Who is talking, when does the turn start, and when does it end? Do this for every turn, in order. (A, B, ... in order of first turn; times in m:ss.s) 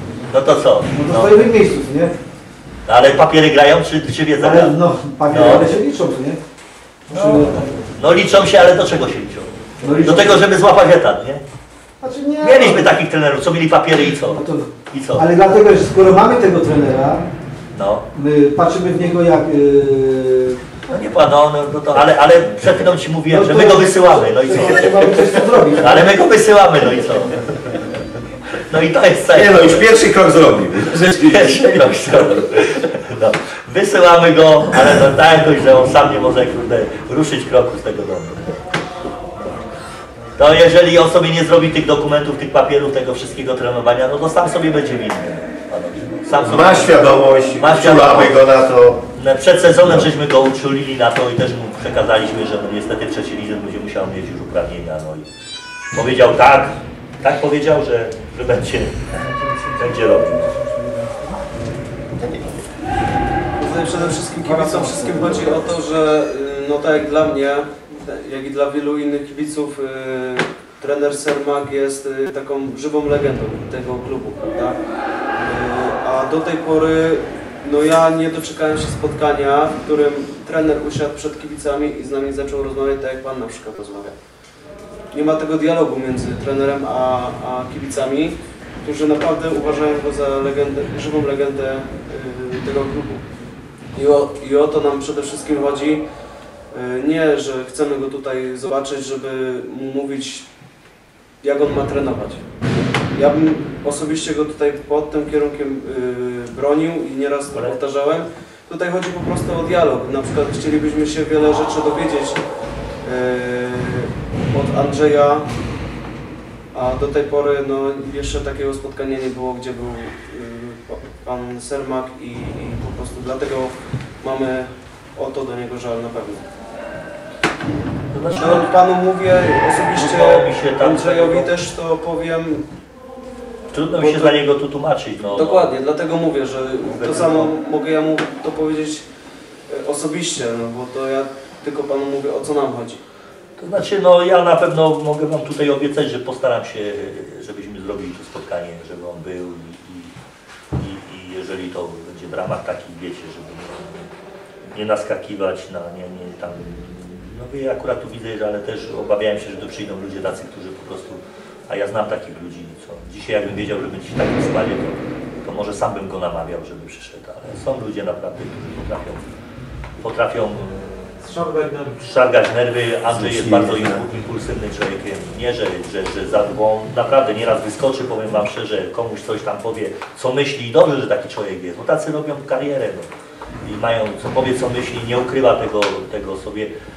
0:00.3-0:01.4 A
0:00.9-0:02.1 B
0:02.8-0:05.8 A
0:04.3-0:06.4 B
0:07.1-0:07.7 B
0:07.1-0:11.4 A
0:09.8-0:10.4 B
0:12.0-0:12.9 B
0:12.4-0:15.3 A
0:14.3-0:17.3 B
0:17.7-0:18.0 A
0:18.1-0:20.6 B
0:20.9-0:27.9 A
0:23.3-0:26.1 B
0:28.6-0:29.9 A
0:29.3-0:31.6 C
0:30.9-0:38.6 A
0:40.4-0:48.4 A
0:46.4-0:49.0 C
0:49.2-0:55.3 A
0:55.9-1:00.5 A
1:00.5-1:01.3 B
1:02.2-1:02.6 C
1:03.6-1:14.8 D
1:04.4-1:05.4 B
1:15.4-1:24.2 D
1:25.1-1:33.2 D
1:33.9-1:36.0 D
1:36.7-1:40.5 D
1:41.4-1:42.4 D
1:43.1-1:52.4 D
1:53.0-1:55.5 D
1:56.7-2:06.4 D
2:08.1-2:08.7 A
2:08.3-2:12.7 D
2:09.9-2:11.5 A
2:13.7-2:15.7 A
2:14.0-2:14.3 D
2:15.3-2:19.0 D
2:16.8-2:17.5 A
2:19.7-2:23.0 D
2:23.6-2:30.1 A
2:30.8-2:34.1 A
2:34.7-2:49.3 A
2:50.0-3:03.1 A
2:53.2-2:54.0 C
3:03.6-3:06.7 A